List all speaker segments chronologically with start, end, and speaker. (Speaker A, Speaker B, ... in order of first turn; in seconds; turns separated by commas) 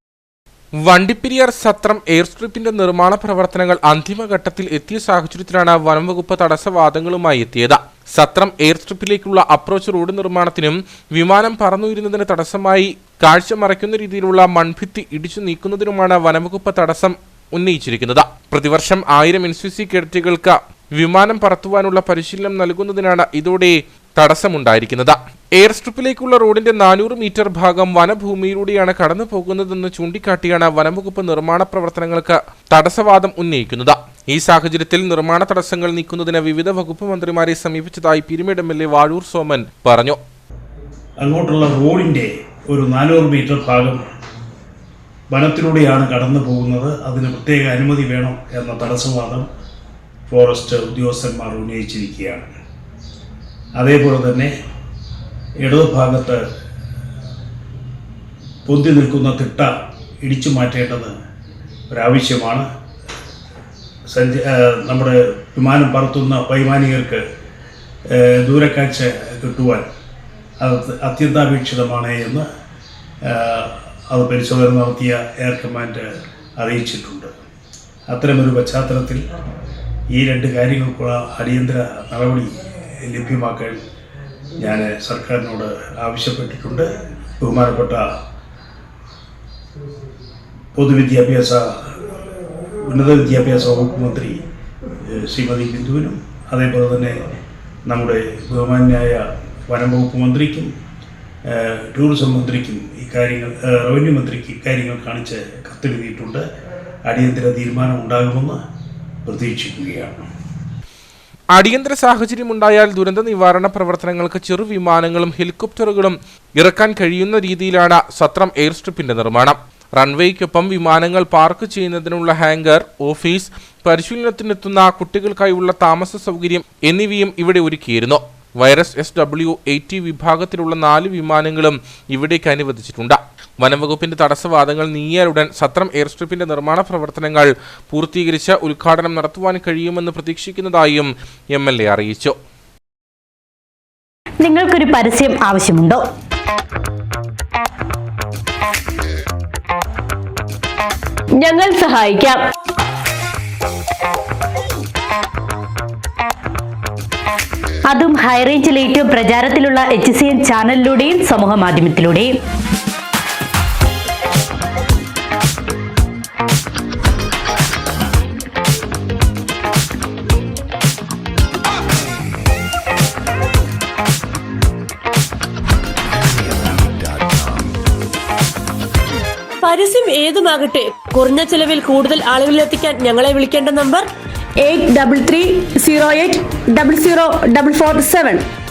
Speaker A: 0.8-40.2, Speaker B: 41.2-44.0, Speaker B: 45.3-49.5, Speaker B: 50.3-52.5, Speaker B: 53.8-54.5, Speaker B: 55.6-56.4, Speaker B: 58.6-61.1, Speaker B: 61.9-62.6, Speaker B: 64.1-67.2, Speaker B: 68.1-69.8, Speaker B: 70.6-72.4, Speaker B: 73.2-76.0, Speaker B: 76.6-77.3, Speaker B: 78.1-79.2, Speaker B: 80.1-83.8, Speaker B: 84.6-86.9, Speaker B: 87.4-88.0, Speaker B: 90.7-92.0, Speaker B: 92.8-94.4, Speaker B: 95.0-97.2, Speaker B: 97.9-100.7, Speaker B: 101.5-106.4, Speaker B: 107.0-108.6, Speaker B: 109.2-110.2, Speaker A: 111.5-142.3, Speaker C: 144.4-146.0, Speaker D: 151.4-152.4, Speaker C: 157.9-162.3, Speaker E: 179.6-184.1, Speaker D: 184.6-188.4